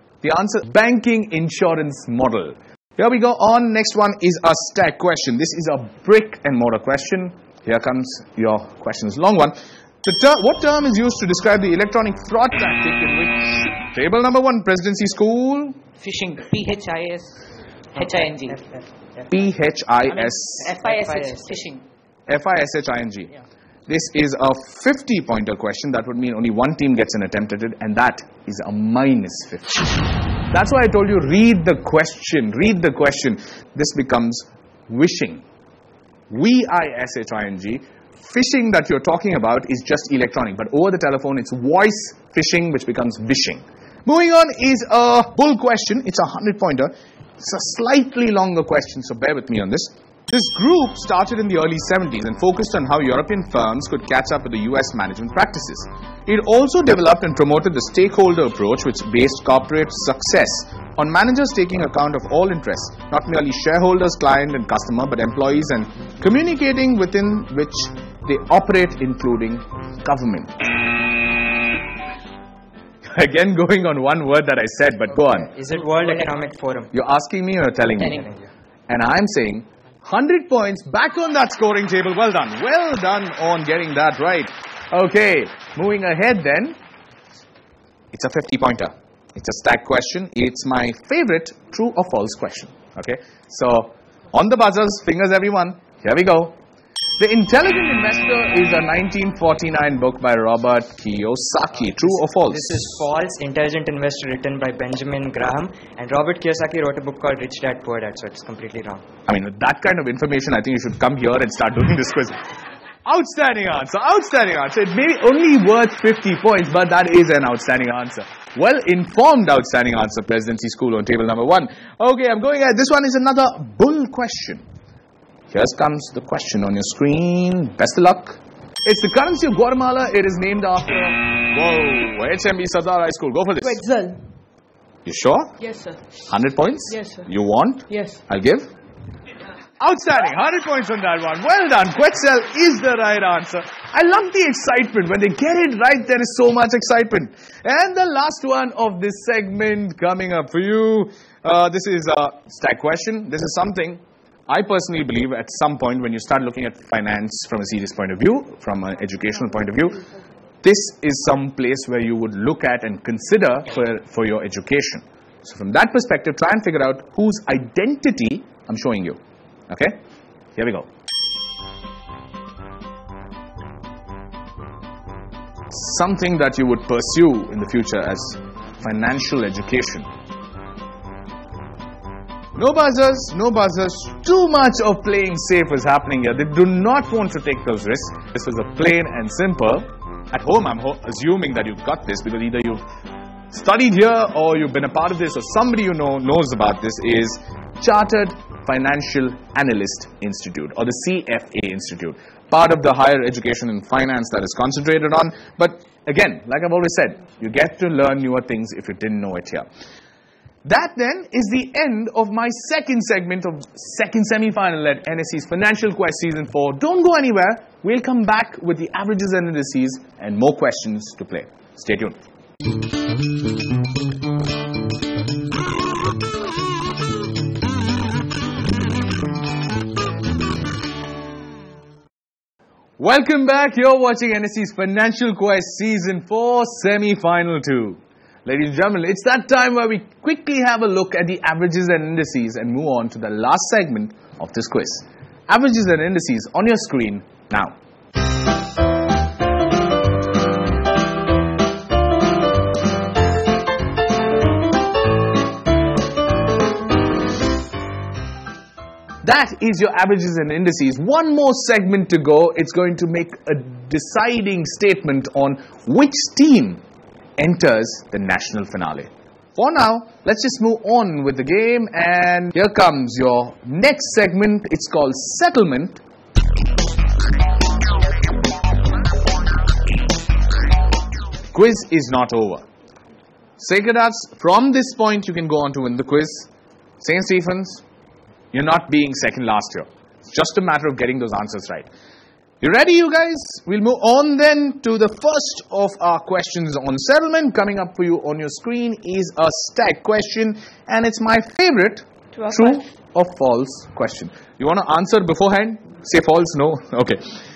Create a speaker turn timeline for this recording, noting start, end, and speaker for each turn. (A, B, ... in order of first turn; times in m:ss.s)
0:00.2-0:15.8 A
0:16.0-0:18.6 B
0:18.0-0:19.3 C
0:19.3-0:20.7 A
0:20.1-0:21.8 B
0:20.8-0:21.6 C
0:22.3-0:23.3 A
0:23.9-0:35.4 A
0:36.3-1:10.6 A
1:13.1-1:15.5 A
1:15.1-1:16.9 C
1:16.0-1:16.3 B
1:16.9-1:18.3 A
1:18.0-1:18.3 B
1:18.1-1:18.5 C
1:18.9-1:26.8 A
1:28.1-1:36.6 A
1:37.2-1:43.0 A
1:41.8-1:49.0 C
1:49.3-1:52.4 A
1:53.0-2:04.6 A
2:05.5-2:13.8 A
2:13.8-2:14.2 B
2:15.0-2:15.6 A
2:15.6-2:16.0 B
2:16.3-2:18.7 A
2:16.9-2:17.2 B
2:17.9-2:18.2 B
2:19.8-2:40.0 A
2:40.6-2:50.0 A
2:50.6-2:50.9 A
2:55.7-3:00.1 A
3:02.6-3:12.8 A
3:13.5-3:29.7 A
3:30.6-3:42.2 A
3:53.0-4:07.8 A
4:19.2-4:26.8 A
4:27.4-4:36.0 A
4:41.5-4:42.7 A
4:43.6-4:46.5 A
4:47.0-4:47.8 A
4:48.5-4:51.9 A
4:52.6-5:07.2 A